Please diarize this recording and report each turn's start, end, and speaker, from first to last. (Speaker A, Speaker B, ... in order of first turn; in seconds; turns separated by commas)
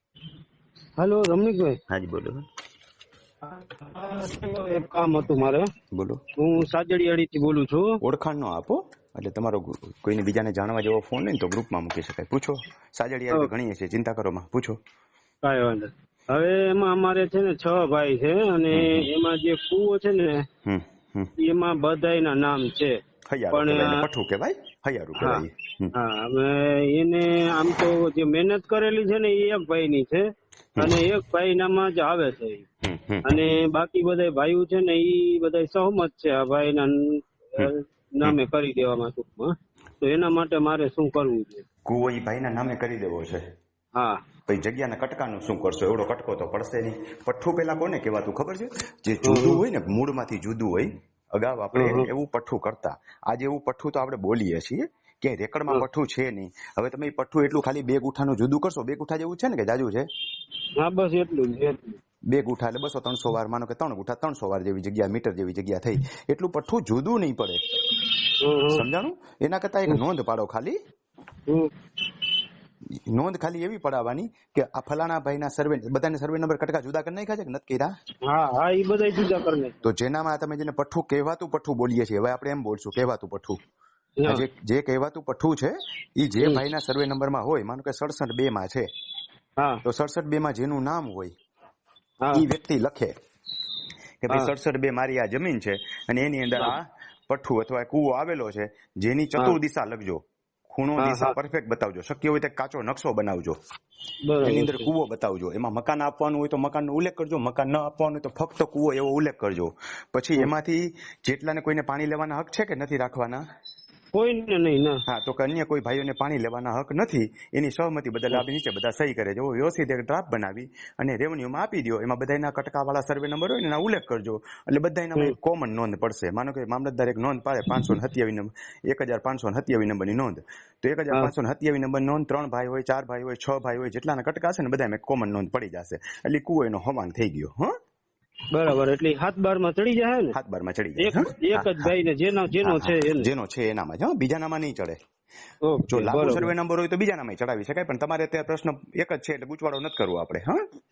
Speaker A: 1.0-1.8, Speaker B: 1.9-2.4, Speaker A: 3.4-5.7, Speaker B: 5.9-6.2, Speaker A: 6.4-8.0, Speaker B: 8.0-14.8, Speaker A: 15.4-20.4, Speaker B: 18.7-19.1, Speaker B: 20.6-21.3, Speaker A: 21.4-23.0, Speaker B: 23.3-25.9, Speaker A: 23.5-24.0, Speaker A: 25.2-30.3, Speaker A: 30.8-32.6, Speaker B: 32.8-33.5, Speaker A: 33.2-41.6, Speaker B: 41.9-43.4, Speaker A: 43.9-44.2, Speaker B: 44.5-60.0, Speaker A: 49.2-49.6, Speaker A: 51.7-52.1, Speaker A: 60.8-62.0, Speaker B: 62.3-67.6, Speaker A: 68.4-68.8, Speaker B: 68.7-70.8, Speaker B: 73.1-77.9, Speaker A: 78.2-79.8, Speaker B: 79.8-83.6, Speaker B: 84.3-88.9, Speaker B: 89.8-91.3, Speaker B: 92.3-93.1, Speaker B: 94.2-103.6, Speaker A: 101.0-101.3, Speaker A: 104.2-104.9, Speaker B: 104.4-113.4, Speaker A: 114.1-115.0, Speaker B: 115.1-137.7, Speaker A: 138.5-140.3, Speaker B: 140.3-141.9, Speaker A: 141.0-143.3, Speaker B: 142.6-145.0, Speaker A: 145.6-146.5, Speaker B: 145.9-150.6